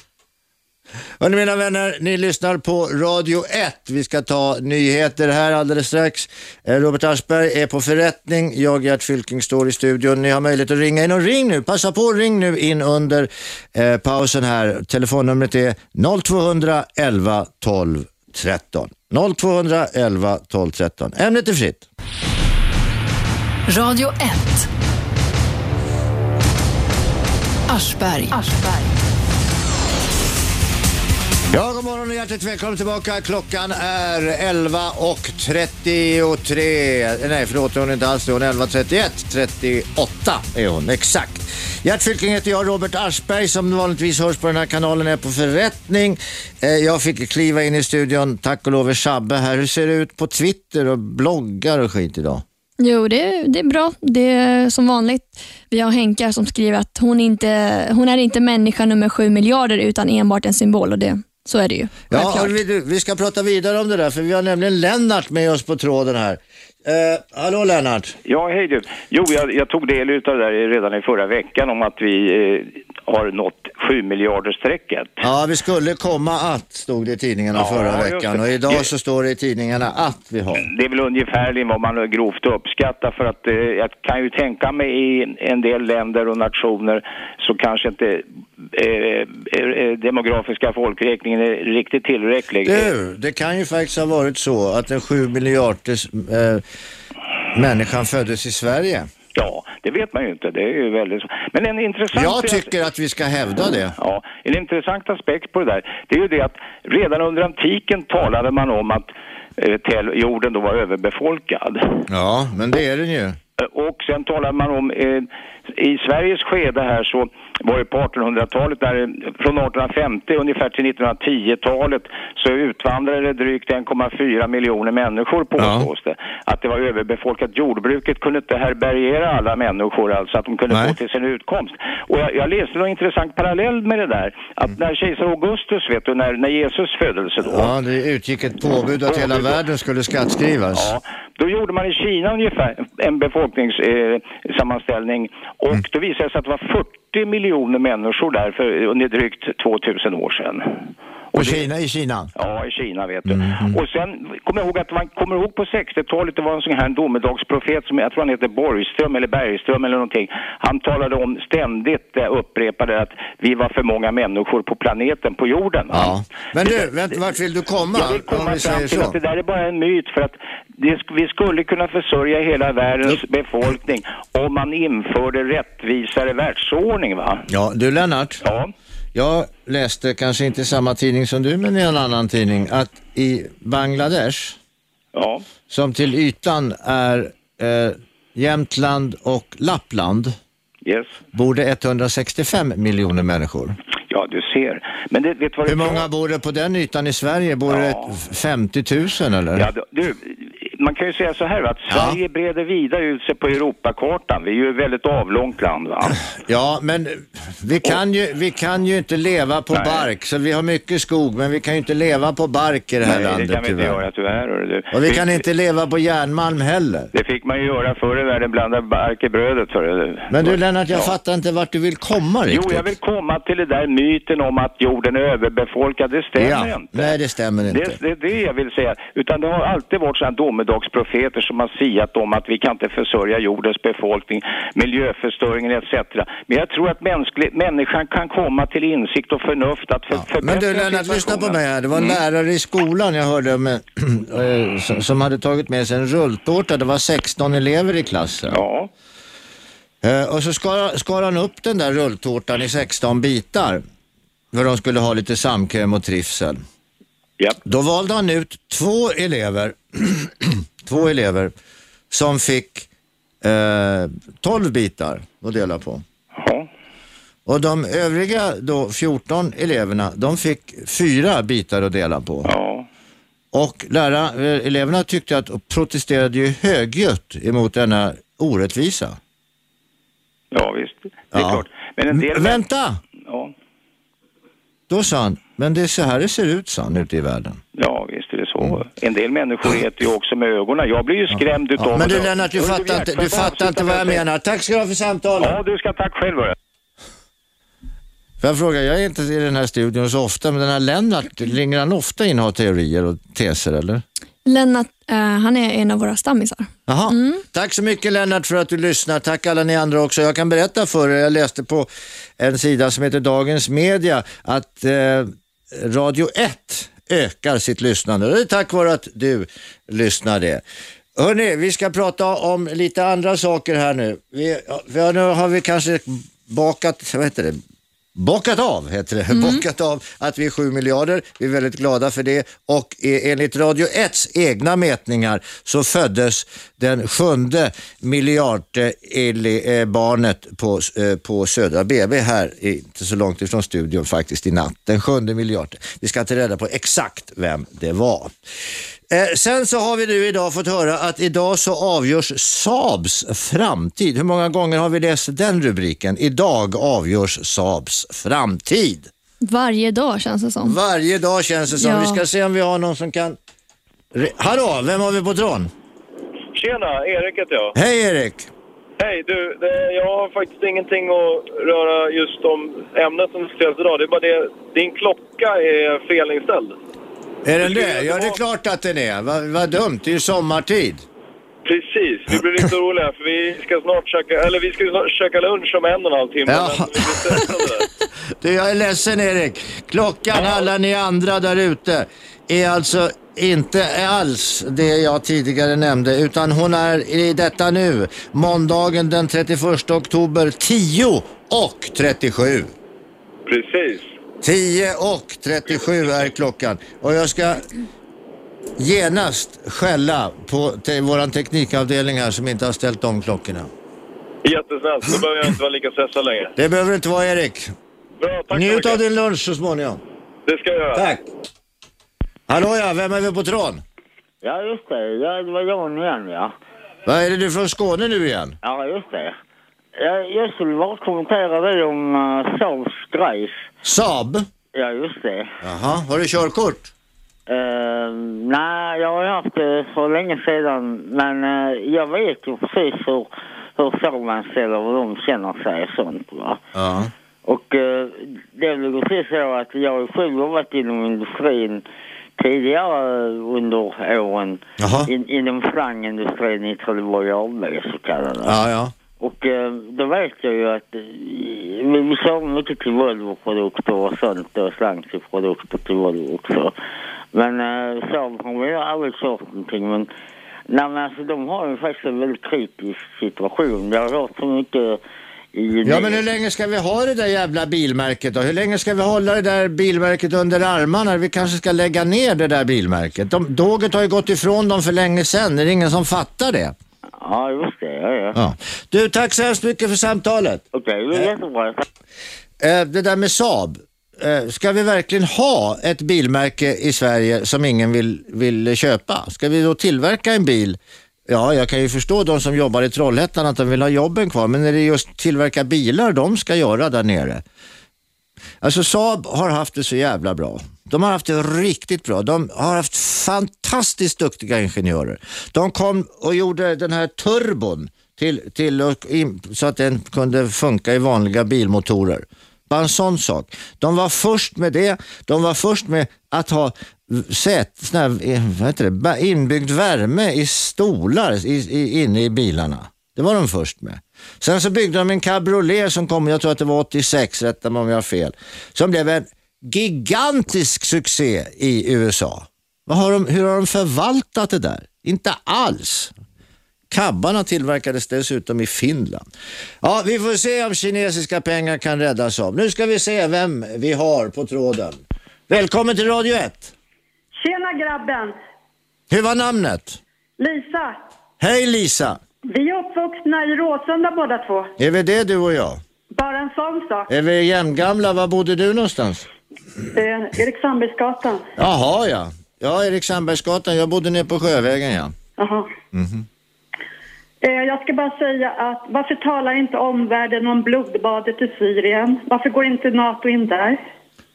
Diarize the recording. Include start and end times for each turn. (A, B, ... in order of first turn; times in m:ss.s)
0:01.2-0:21.9 A
0:23.7-0:24.7 B
0:27.7-0:28.9 B
0:31.5-0:52.4 A
0:52.8-1:02.5 C
1:02.1-1:08.2 A
1:08.2-1:15.2 D
1:15.2-1:20.7 A
1:17.5-1:18.9 D
1:20.6-1:32.9 D
1:32.6-1:36.6 A
1:37.5-1:39.1 A
1:39.3-1:42.7 D
1:42.1-1:44.0 A
1:44.0-1:52.0 D
1:52.1-1:53.4 A
1:53.6-2:17.7 D
2:05.6-2:05.9 A
2:10.7-2:11.0 A
2:17.4-2:20.9 A
2:19.1-2:19.6 D
2:20.7-2:31.6 D
2:31.3-2:32.3 A
2:32.4-2:46.9 D
2:33.2-2:33.8 A
2:45.9-2:49.2 A
2:47.9-2:57.4 D
2:57.5-2:58.4 A
2:58.4-2:58.7 D
2:59.1-3:04.6 A
3:05.1-3:05.4 D
3:05.7-3:10.4 A
3:10.8-3:11.2 D
3:11.3-3:13.8 A
3:14.1-3:16.0 D
3:15.6-3:19.7 A
3:17.7-3:18.1 D
3:19.6-3:26.2 D
3:21.9-3:22.2 A
3:26.3-3:34.0 A
3:29.7-3:30.0 D
3:33.0-3:35.4 D
3:34.9-3:37.1 A
3:37.1-3:41.1 D
3:40.3-3:42.9 A
3:42.5-3:47.1 D
3:46.4-3:48.0 A
3:47.7-4:02.2 D
4:00.1-4:08.6 A
4:08.5-4:08.9 D
4:10.0-4:13.8 A
4:14.5-4:16.6 A
4:17.6-4:21.5 A
4:22.1-4:22.9 A
4:23.4-4:26.0 A
4:26.3-4:26.7 D
4:27.4-4:32.5 A
4:32.4-4:32.8 D
4:33.5-4:39.2 A
4:40.5-4:42.6 D
4:41.3-4:43.0 A
4:43.2-4:43.5 D
4:44.9-4:47.6 A
4:47.7-4:54.2 D
4:51.3-4:55.6 A
4:55.4-4:56.6 D
4:58.4-5:04.0 A
5:04.4-5:07.4 C
5:06.9-5:20.6 A
5:21.2-5:27.6 A
5:28.1-5:48.3 A
5:29.3-5:29.6 C
5:49.1-5:59.1 A
5:59.4-6:00.8 C
6:00.6-6:03.4 A
6:01.8-6:02.2 C
6:04.1-6:05.7 A
6:06.5-6:07.7 E
6:07.7-6:08.5 A
6:09.0-6:16.8 E
6:17.4-6:21.0 A
6:17.6-6:18.4 E
6:21.6-6:27.8 E
6:26.5-6:27.6 A
6:28.4-6:42.7 A
6:43.4-6:44.1 E
6:44.4-6:47.6 A
6:48.8-6:53.7 A
6:54.4-6:56.5 E
6:56.6-6:57.7 A
6:58.2-6:59.0 E
6:58.5-7:00.0 A
7:00.4-7:01.2 E
7:00.9-7:01.2 A
7:02.5-7:03.8 A
7:04.4-7:06.5 F
7:07.0-7:08.6 A
7:08.6-7:09.4 F
7:10.0-7:13.7 F
7:13.8-7:14.5 A
7:14.7-7:15.5 F
7:15.6-7:16.9 A
7:17.5-7:26.6 F
7:26.7-7:27.1 A
7:27.4-7:31.8 F
7:32.4-7:38.6 F
7:34.8-7:35.1 A
7:38.4-7:38.9 A
7:39.2-7:46.7 F
7:47.3-7:50.1 F
7:50.7-7:55.0 F
7:55.5-7:56.2 F
7:55.8-8:06.7 A
8:07.2-8:08.4 F
8:08.3-8:11.3 A
8:10.7-8:11.8 F
8:12.6-8:27.4 A
8:28.6-9:06.1 A
9:06.9-9:09.2 A
9:09.8-9:16.7 A
9:17.4-9:18.3 G
9:19.1-9:20.0 A
9:20.4-9:21.0 G
9:21.4-9:22.2 A
9:22.5-9:24.7 G
9:24.8-9:25.8 A
9:26.1-9:27.1 G
9:27.1-9:29.3 A
9:29.9-9:31.5 G
9:31.6-9:35.1 A
9:35.4-9:35.7 G
9:35.9-9:36.2 A
9:37.4-9:43.8 G